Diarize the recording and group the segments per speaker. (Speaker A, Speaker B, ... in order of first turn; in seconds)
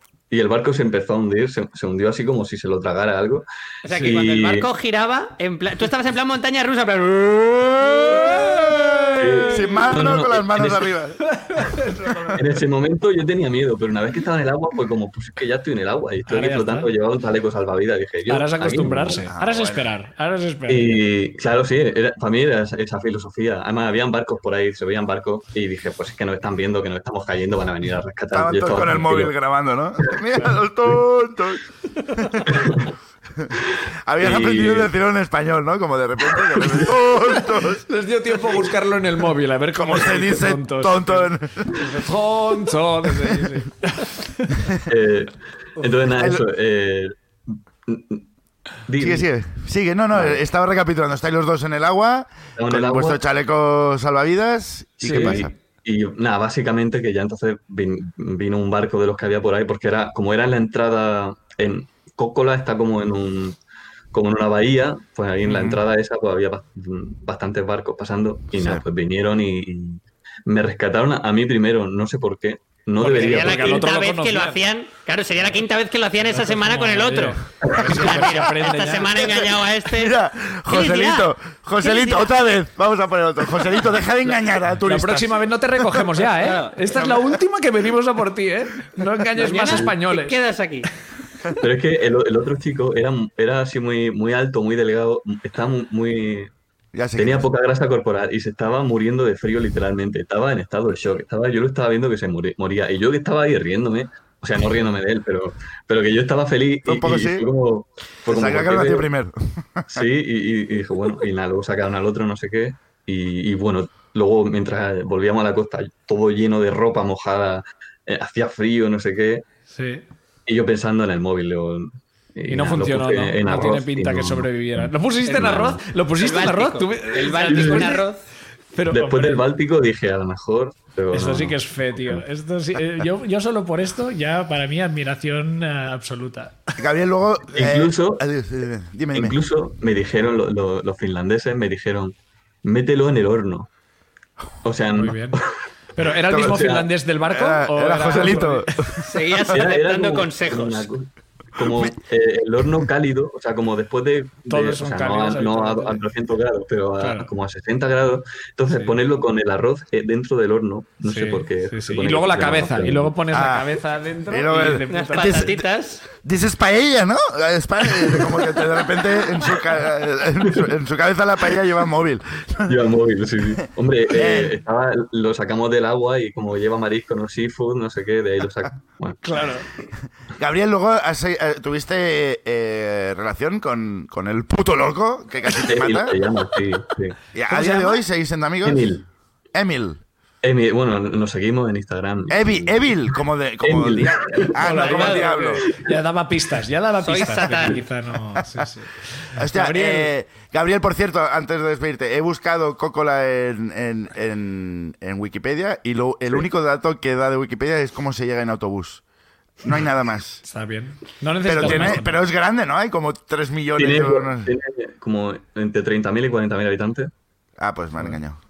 Speaker A: 0.3-4.7, 9.2-10.9, 12.3-19.3, 20.7-29.3, 32.5-32.9, 34.2-34.9, 44.9-48.2, 48.9-49.2, 50.1-50.4, 52.6-53.2, 55.0-63.6, 64.1-73.9, 89.7-89.9, 91.6-96.5, 97.2-109.1, 109.9-119.4, 120.5-125.8, 127.4-128.0, 128.9-131.6, 137.5-138.2, 139.1-143.7, 144.6-145.5, 146.3-146.9, 149.5-163.2, 172.7-179.2, 185.6-187.2, 188.6-189.0, 190.4-192.9, 193.6-194.6, 195.6-195.9, 213.8-217.1
Speaker B: 3.8-8.5, 73.1-80.1, 80.7-82.3, 86.4-87.2, 89.4-90.9, 125.2-125.5, 126.2-128.2, 149.0-150.9, 164.9-166.0, 194.7-195.4, 197.0-197.8
Speaker C: 8.1-9.9, 11.3-12.4, 16.3-16.9, 18.3-21.0, 37.9-44.6, 55.0-55.4, 73.0-74.6, 76.2-79.1, 84.8-90.3, 119.7-120.0, 122.5-128.0, 128.7-129.4, 131.1-136.6, 144.9-145.4, 145.9-148.7, 154.5-156.0, 157.0-157.3, 161.0-165.4, 179.2-179.7, 194.6-200.1, 210.4-212.2
Speaker D: 9.5-11.2, 19.3-19.9, 28.3-31.6, 32.1-32.5, 34.0-37.8, 39.7-41.7, 46.1-46.4, 49.0-55.5, 65.4-65.8, 68.5-68.8, 79.1-86.0, 96.9-97.4, 106.8-107.4, 108.2-110.0, 136.8-139.4, 146.3-146.6, 147.2-149.3, 163.3-172.8, 173.6-174.6, 180.3-186.2, 187.3-188.9, 189.5-190.0, 192.3-195.6, 199.4-209.0, 209.6-210.4, 211.4-214.5, 217.6-218.4